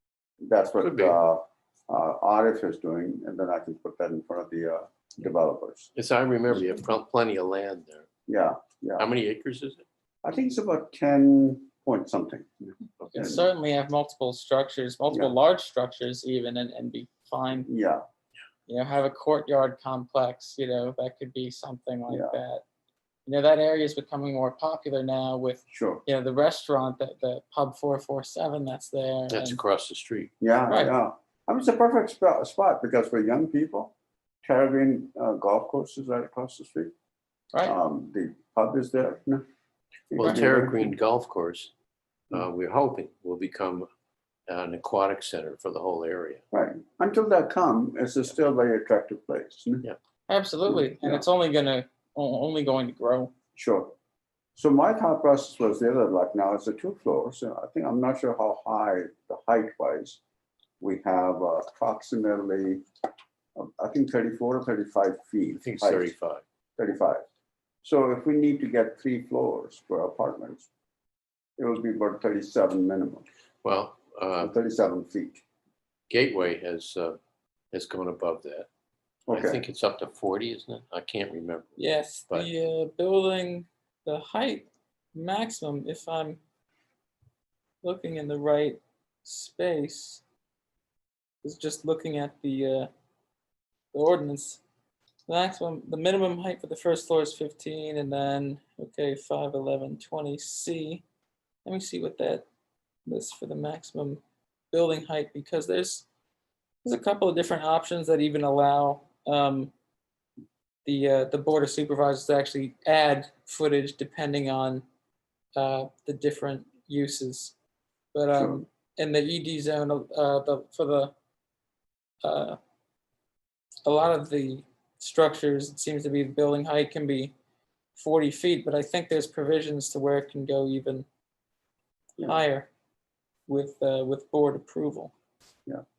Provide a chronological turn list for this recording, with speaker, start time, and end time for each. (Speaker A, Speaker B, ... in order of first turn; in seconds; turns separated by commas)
Speaker A: 0.4-5.9, Speaker B: 0.8-1.2, Speaker B: 6.0-8.1, Speaker A: 8.3-9.1, Speaker B: 9.0-9.8, Speaker A: 10.2-13.4, Speaker C: 13.1-17.7, Speaker A: 17.7-18.0, Speaker C: 18.7-22.6, Speaker A: 22.1-22.4, Speaker C: 23.2-29.6, Speaker A: 25.7-26.0, Speaker B: 29.3-30.3, Speaker A: 30.4-33.9, Speaker C: 30.7-30.9, Speaker A: 34.4-36.9, Speaker A: 37.6-39.4, Speaker A: 40.1-40.9, Speaker B: 40.1-41.7, Speaker B: 42.3-43.9, Speaker B: 44.5-46.4, Speaker A: 46.5-49.9, Speaker C: 50.3-53.3, Speaker A: 50.7-51.2, Speaker A: 53.5-53.9, Speaker A: 54.5-60.2, Speaker A: 60.8-62.8, Speaker A: 63.5-66.1, Speaker B: 65.5-66.4, Speaker A: 66.8-67.2, Speaker A: 67.8-70.7, Speaker A: 71.6-73.2, Speaker B: 73.6-74.5, Speaker A: 74.4-75.4, Speaker B: 76.1-77.2, Speaker B: 77.7-78.7, Speaker A: 79.3-79.6, Speaker B: 79.3-81.8, Speaker C: 81.8-86.4, Speaker C: 87.8-90.2, Speaker C: 91.4-92.9, Speaker C: 93.9-94.6, Speaker C: 95.3-101.0, Speaker C: 101.6-102.5, Speaker C: 103.0-104.2, Speaker C: 104.7-106.0, Speaker C: 106.8-109.7, Speaker C: 110.8-114.8, Speaker C: 115.5-117.5, Speaker C: 118.1-121.1, Speaker A: 118.3-118.6, Speaker C: 122.2-122.6, Speaker C: 123.8-127.3, Speaker C: 128.0-131.1, Speaker C: 132.2-132.7, Speaker C: 133.5-135.1